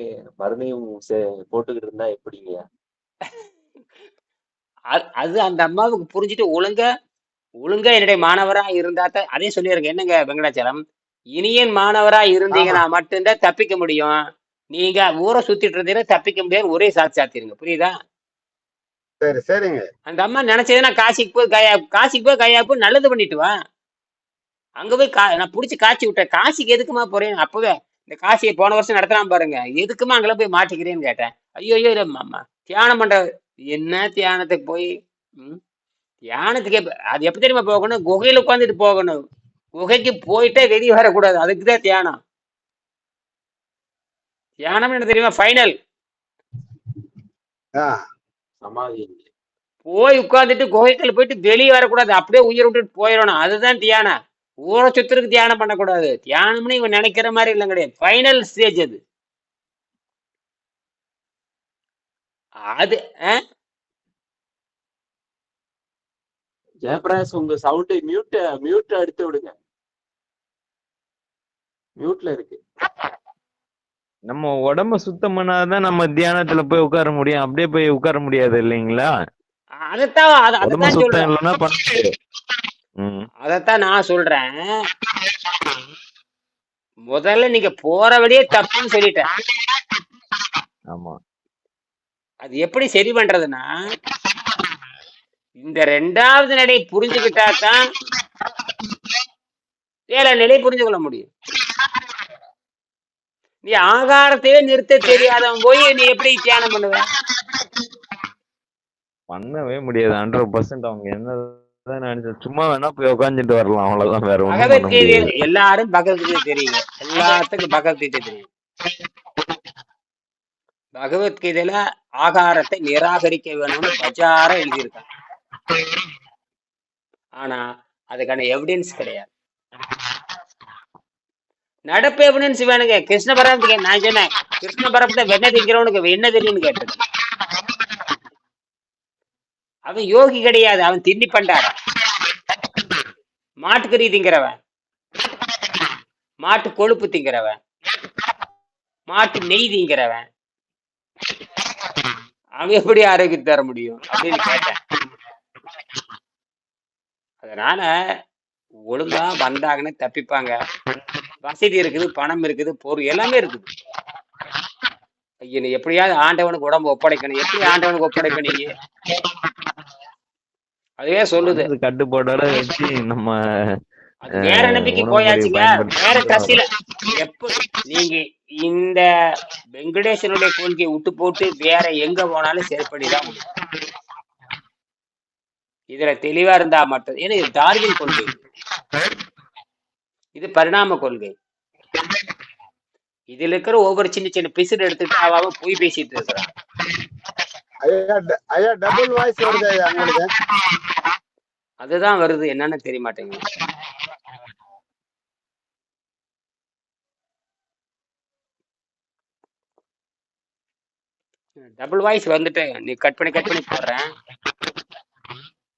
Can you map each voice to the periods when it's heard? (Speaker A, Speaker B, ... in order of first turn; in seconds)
Speaker A: 0.3-2.6, 48.6-49.3, 66.8-69.5, 72.0-72.6
Speaker B: 4.9-6.8, 7.6-10.8, 11.4-14.2, 14.7-17.9, 20.1-23.5, 24.8-35.6, 36.3-39.2, 39.8-42.1, 44.7-45.7, 49.9-54.1, 54.7-59.0, 62.7-63.4, 79.8-81.3, 83.4-84.5, 87.1-89.3, 92.4-93.7, 95.6-97.8, 100.1-101.3, 103.6-107.0, 114.5-118.5, 121.0-125.0, 127.4-129.3, 131.9-137.0, 139.9-141.7, 143.6-144.6, 146.4-147.6, 149.1-150.2, 152.6-154.8, 157.4-157.9, 158.9-160.5, 161.4-163.7, 165.4-168.7, 171.0-171.7, 174.2-179.0, 179.8-183.4, 185.9-188.4, 190.3-191.3, 193.3-196.5, 201.8-203.4, 211.8-214.1
Speaker C: 12.5-12.8, 19.2-19.8, 197.8-200.3
Speaker D: 74.3-79.1, 80.6-82.1, 83.0-83.3, 90.9-91.2, 109.3-115.3, 171.4-173.3, 174.5-176.6